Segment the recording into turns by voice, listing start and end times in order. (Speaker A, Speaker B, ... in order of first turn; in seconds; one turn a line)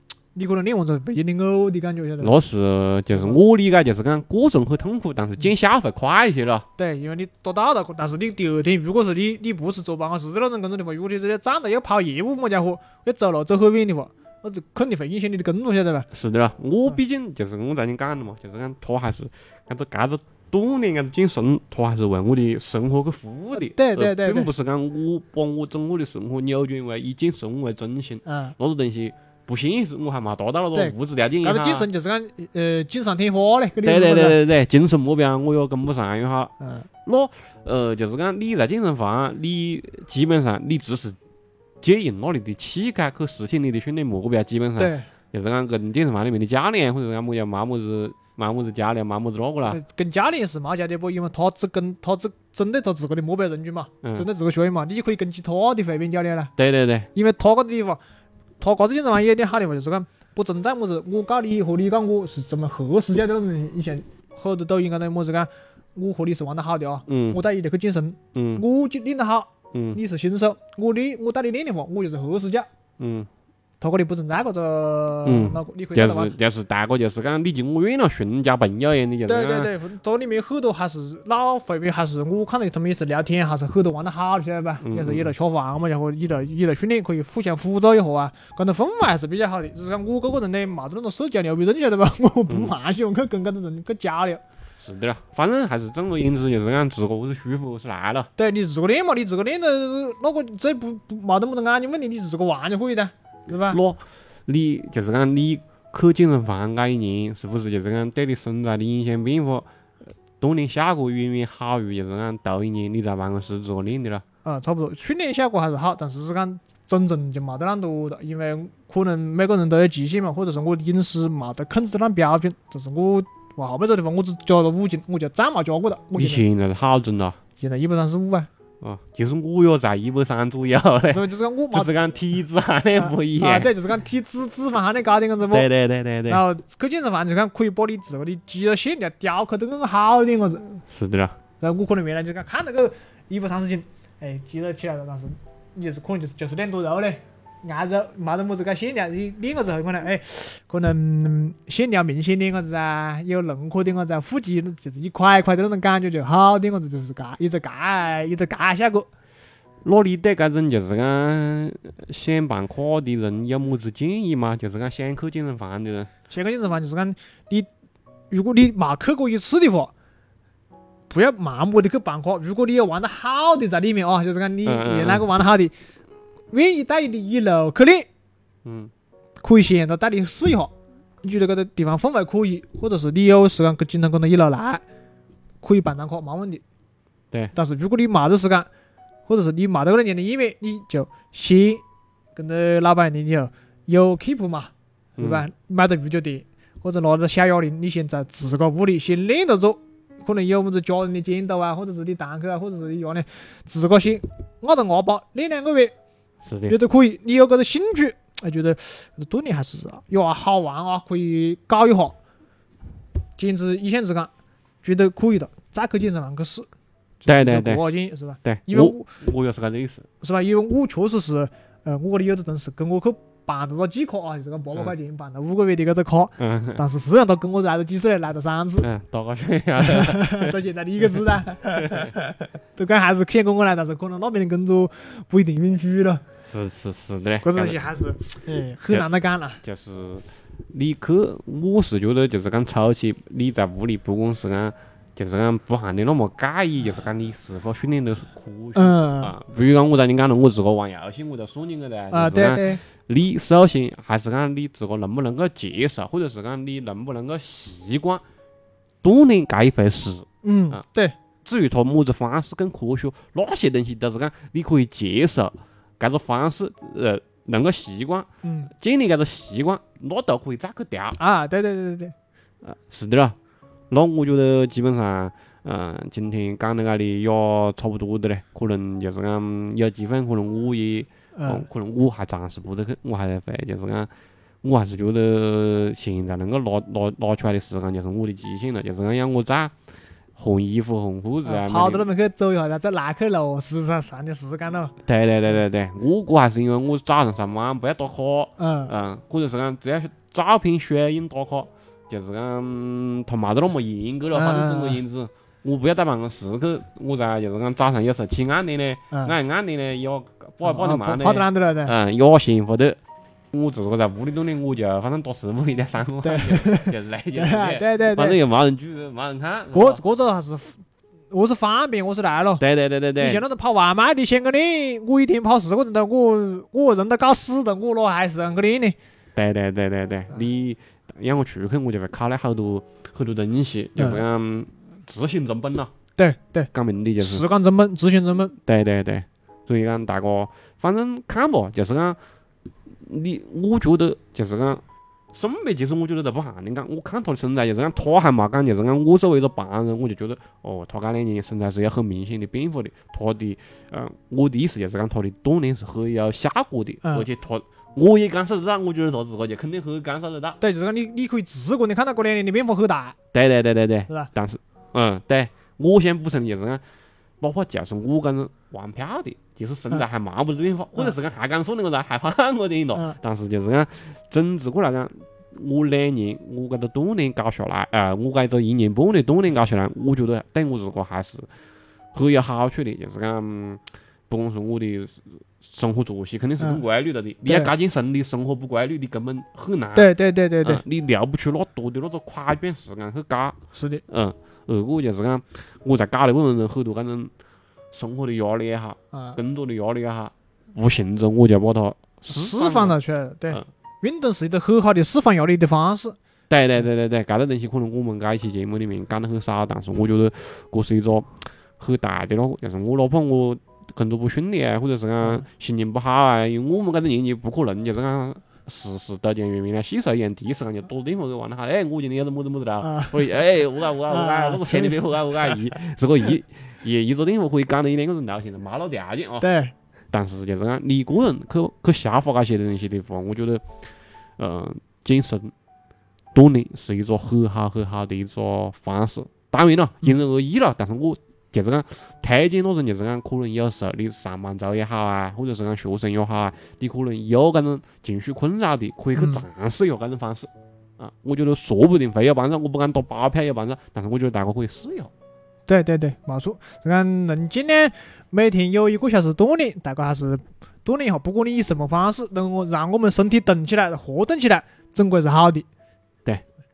Speaker A: 0.3-2.4
Speaker B: 2.2-6.7
Speaker A: 3.1-3.4
Speaker A: 6.8-16.1
Speaker B: 16.1-31.9
Speaker A: 23.6-24.5
Speaker A: 28.3-28.6
Speaker A: 30.7-34.4
Speaker B: 33.8-36.5
Speaker A: 36.6-36.9
Speaker B: 37.0-41.2
Speaker B: 41.8-49.8
Speaker A: 44.8-45.1
Speaker A: 49.7-56.5
Speaker B: 56.6-57.1
Speaker A: 57.1-58.0
Speaker A: 58.6-72.7
Speaker B: 67.1-67.4
Speaker B: 68.3-68.6
Speaker B: 69.7-70.0
Speaker B: 73.0-73.3
Speaker A: 73.8-76.3
Speaker B: 75.2-79.7
Speaker A: 79.3-94.4
Speaker B: 84.8-85.3
Speaker B: 94.8-98.3
Speaker A: 98.4-103.8
Speaker B: 103.5-109.7
Speaker B: 110.4-114.2
Speaker A: 114.5-126.4
Speaker B: 126.2-127.4
Speaker A: 127.6-128.5
Speaker B: 128.8-133.7
Speaker A: 131.1-131.9
Speaker A: 133.0-135.7
Speaker B: 135.5-136.4
Speaker A: 136.3-140.8
Speaker B: 140.9-141.3
Speaker A: 141.6-159.1
Speaker B: 159.8-166.1
Speaker A: 166.3-167.7
Speaker A: 168.3-169.9
Speaker A: 171.1-175.7
Speaker B: 174.7-175.3
Speaker A: 176.5-178.1
Speaker B: 178.7-178.9
Speaker A: 179.4-184.8
Speaker A: 185.6-186.6
Speaker A: 187.5-188.7
Speaker A: 189.3-191.8
Speaker A: 192.3-205.9
Speaker B: 195.2-195.4
Speaker B: 206.5-206.8
Speaker A: 206.7-212.2
Speaker A: 213.4-214.3
Speaker A: 214.8-216.7
Speaker A: 217.2-219.1
Speaker B: 217.3-217.8
Speaker B: 218.4-220.1
Speaker A: 220.2-228.9
Speaker B: 226.4-226.8
Speaker B: 228.8-230.6
Speaker A: 229.8-236.2
Speaker B: 231.1-232.1
Speaker B: 236.4-237.8
Speaker A: 237.4-239.6
Speaker B: 239.6-258.2
Speaker A: 248.8-249.3
Speaker A: 252.1-252.8
Speaker B: 259.0-260.8
Speaker A: 260.4-261.2
Speaker B: 261.4-271.2
Speaker A: 268.4-268.7
Speaker A: 271.2-272.1
Speaker B: 272.6-273.4
Speaker B: 273.9-284.1
Speaker A: 281.4-281.7
Speaker B: 284.6-289.7
Speaker B: 290.4-292.1
Speaker A: 291.4-294.9
Speaker B: 295.1-313.0
Speaker A: 298.6-298.9
Speaker A: 304.3-305.0
Speaker A: 310.6-311.9
Speaker B: 313.5-320.0
Speaker A: 316.2-318.4
Speaker A: 319.7-322.6
Speaker B: 322.6-323.4
Speaker A: 323.2-329.0
Speaker B: 329.4-335.9
Speaker A: 334.0-334.2
Speaker A: 336.2-338.6
Speaker B: 336.7-337.4
Speaker B: 338.7-342.2
Speaker B: 343.0-360.6
Speaker A: 360.6-363.2
Speaker B: 363.3-366.8
Speaker B: 367.4-381.5
Speaker B: 382.1-397.3
Speaker A: 387.5-387.7
Speaker A: 389.9-390.8
Speaker A: 393.7-394.0
Speaker B: 397.9-403.0
Speaker A: 399.1-399.4
Speaker A: 402.3-406.2
Speaker B: 406.5-429.5
Speaker A: 422.8-423.2
Speaker A: 424.1-425.5
Speaker A: 429.4-429.7
Speaker B: 430.1-433.7
Speaker B: 434.4-435.5
Speaker B: 436.3-455.1
Speaker A: 449.2-449.4
Speaker A: 455.7-465.7